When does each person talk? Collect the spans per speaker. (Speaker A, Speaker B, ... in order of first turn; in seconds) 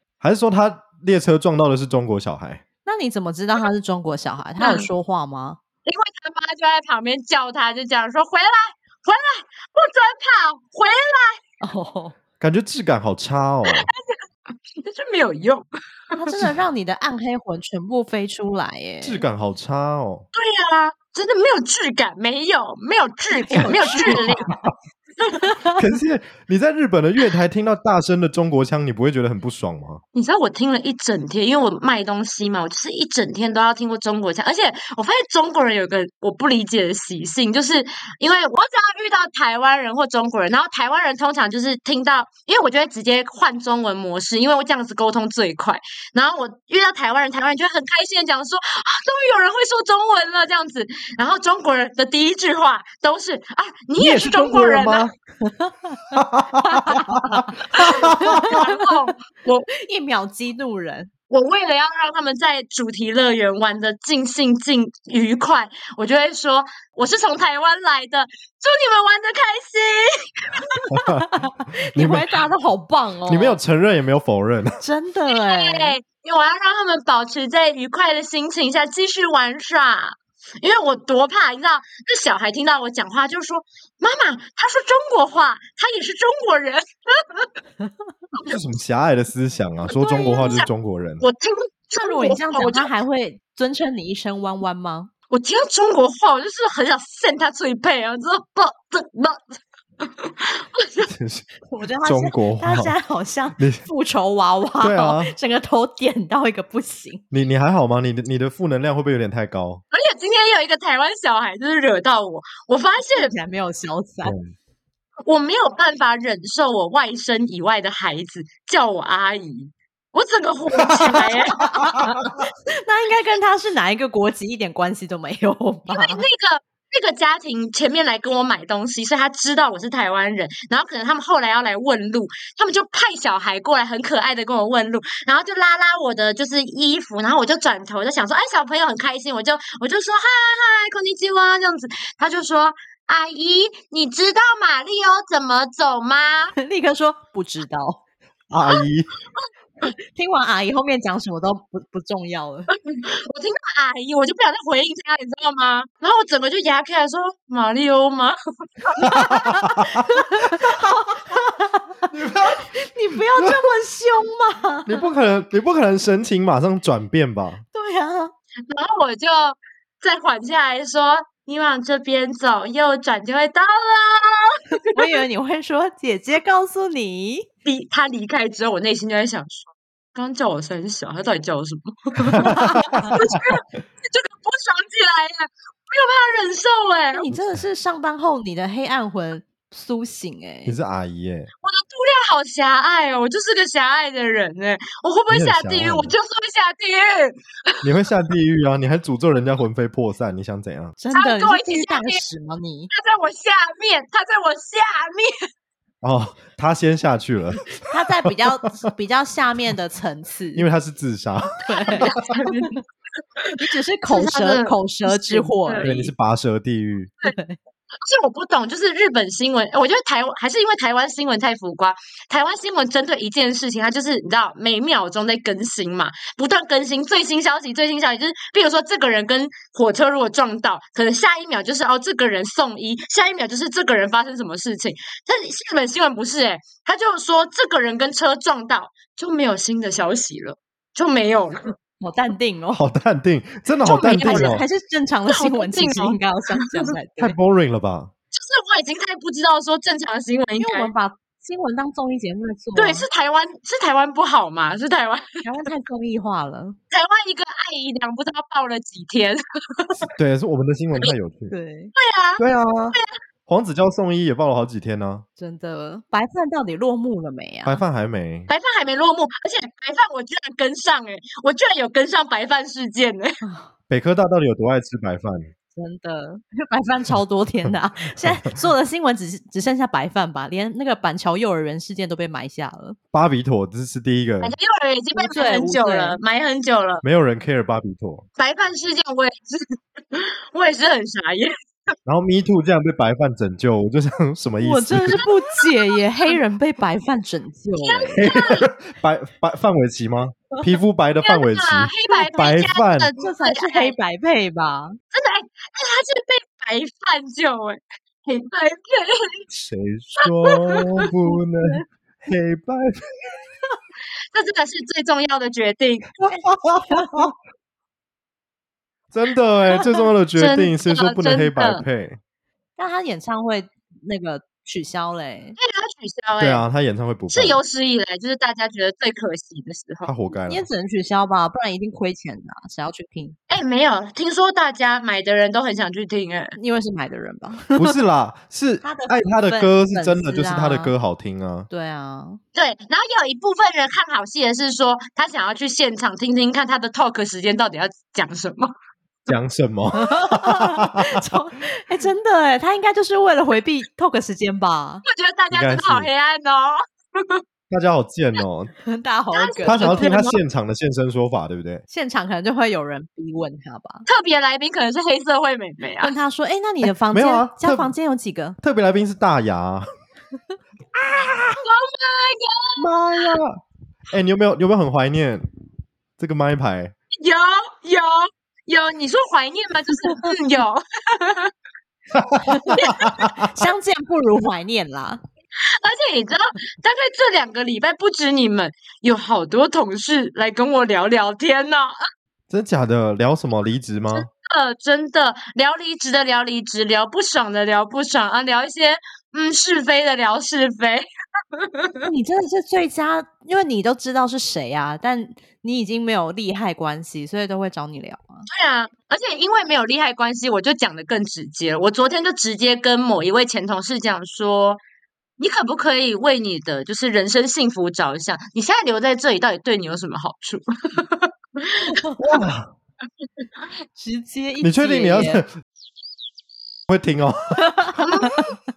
Speaker A: 0.2-2.6, 12.4-13.9, 19.0-20.2, 23.5-24.7, 25.8-30.0, 54.0-55.1, 56.1-58.6, 70.9-71.2, 71.9-72.4, 73.3-74.8, 88.5-91.2, 101.0-101.5, 102.0-103.0, 103.6-103.8, 104.8-105.3, 107.3-109.8, 114.2-114.5, 148.5-149.1, 159.0-159.9, 162.1-162.7, 163.3-163.7, 164.8-167.6, 182.3-183.1, 190.7-191.5, 195.3-196.2, 197.8-201.0, 206.0-208.3, 210.5-212.2, 215.8-217.1, 242.7-244.7, 247.2-248.1, 260.0-261.5, 262.4-265.2, 267.6-268.5, 273.9-275.5, 283.1-284.6, 287.0-288.2, 292.1-295.2, 298.1-303.1, 309.5-313.0, 316.2-317.3, 319.1-322.2, 326.4-327.6, 330.0-330.7, 337.8-341.7, 349.3-350.9, 355.5-356.1, 357.7-358.7, 359.6-361.8, 366.8-367.9, 368.6-369.9, 372.8-375.4, 376.2-376.9, 382.1-383.5, 392.5-394.3, 422.2-422.7, 424.6-425.5, 426.9-427.8
Speaker B: 2.8-5.6, 11.6-12.2, 16.1-19.2, 23.3-24.2, 25.4-25.7, 55.5-58.9, 59.7-61.1, 71.1-73.6, 74.8-76.0, 90.2-90.5, 92.0-95.1, 101.7-107.2, 113.1-114.3, 121.5-126.2, 146.6-148.0, 149.8-152.7, 159.0-161.8, 162.6-165.0, 167.7-168.3, 174.9-177.5, 182.4-183.1, 187.1-190.8, 201.0-202.9, 207.9-210.7, 211.6-212.2, 213.6-216.1, 217.2-217.6, 242.0-242.8, 243.8-247.3, 250.6-253.1, 255.4-256.8, 261.5-261.9, 265.4-267.8, 273.4-273.7, 275.8-283.0, 285.1-286.2, 294.6-298.2, 303.2-304.9, 316.3-317.3, 322.8-325.6, 330.3-333.4, 336.5-338.0, 338.8-340.9, 341.7-342.4, 349.9-355.0, 358.8-360.1, 361.9-364.0, 366.0-368.6, 382.5-385.2, 402.0-408.4, 423.9-425.4, 427.8-428.4
Speaker C: 4.6-4.9, 5.8-11.4, 13.7-14.2, 14.8-16.3, 20.3-24.5, 30.1-55.1, 57.8-59.7, 61.3-70.7, 75.3-87.5, 89.9-90.7, 91.2-92.9, 95.3-101.1, 109.9-113.3, 115.3-121.7, 125.9-146.5, 152.7-159.0, 168.7-175.2, 177.7-187.3, 191.6-197.8, 201.1-202.2, 202.9-205.3, 212.0-212.7, 213.4-215.9, 218.0-241.7, 243.8-244.7, 245.3-246.9, 248.3-250.9, 252.7-255.4, 256.9-260.1, 262.0-263.2, 268.5-273.3, 284.4-287.0, 288.4-291.5, 295.1-296.0, 297.8-298.7, 301.2-304.0, 305.1-309.4, 310.2-311.1, 314.3-316.1, 320.4-321.8, 325.6-326.6, 327.3-330.1, 333.5-336.6, 342.5-348.7, 355.0-357.4, 359.3-360.4, 364.1-366.1, 371.6-373.4, 377.2-381.5, 382.8-383.2, 385.8-391.9, 394.1-401.1, 401.6-402.1, 408.5-414.8, 415.4-422.0, 427.9-428.6